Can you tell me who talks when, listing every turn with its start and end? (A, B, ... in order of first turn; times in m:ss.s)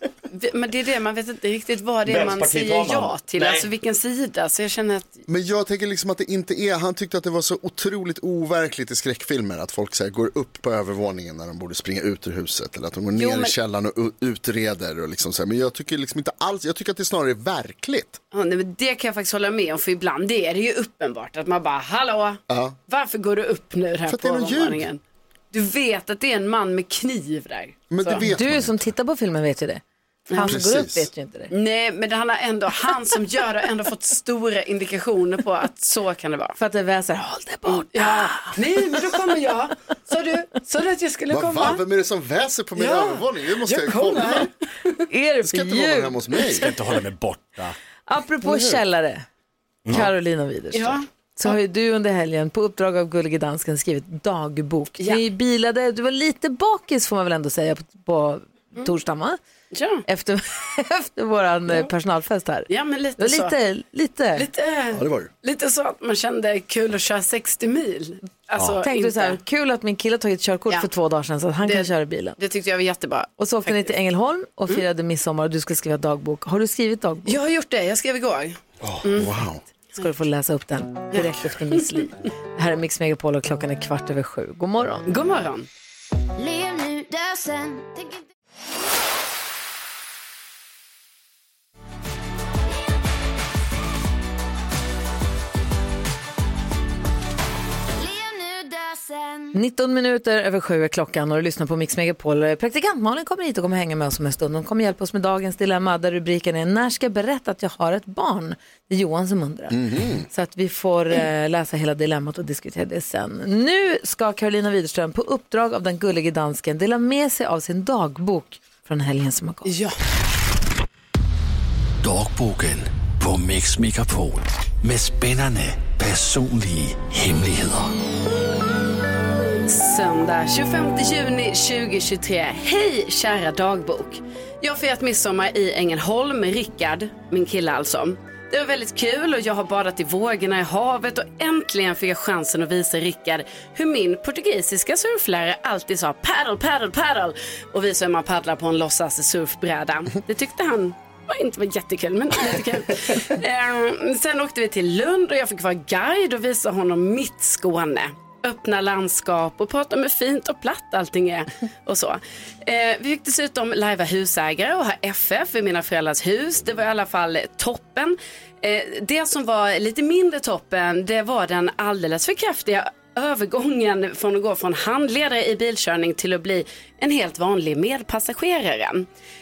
0:00.3-0:05.2 A
0:02.1-0:03.7 B
0:05.3-0:18.2 C
0:13.2-0:13.5 A
0:18.3-0:25.0 A
0:22.5-0:22.8 C
0:24.1-0:24.9 C
0:25.5-0:28.2 A
0:27.9-0:28.9 C
0:28.2-0:31.5 D
0:30.3-0:30.6 A
0:30.4-0:31.1 C
0:31.5-0:36.6 A
0:36.6-0:38.6 D
0:37.7-0:41.8 A
0:41.3-0:44.5 C
0:42.8-0:44.5 A
0:45.1-0:46.2 D
0:45.4-0:46.8 C
0:46.5-0:47.8 B
0:48.1-0:49.2 D
0:48.4-0:48.8 C
0:49.9-0:59.4 D
0:50.7-0:51.5 A
0:59.7-1:00.0 A
1:00.1-1:02.7 D
1:02.7-1:03.6 A
1:03.2-1:04.5 D
1:04.4-1:09.4 A
1:04.9-1:05.3 C
1:08.8-1:12.4 D
1:11.6-1:13.9 A
1:13.4-1:17.4 D
1:17.3-1:19.3 A
1:18.8-1:19.6 C
1:20.0-1:25.1 D
1:21.1-1:21.8 A
1:25.1-1:25.7 A
1:26.4-1:28.3 E
1:38.0-1:39.6 E
1:39.5-1:59.7 D
1:49.7-1:50.3 C
1:59.6-2:00.0 A
2:02.0-2:08.0 F
2:09.6-2:59.1 A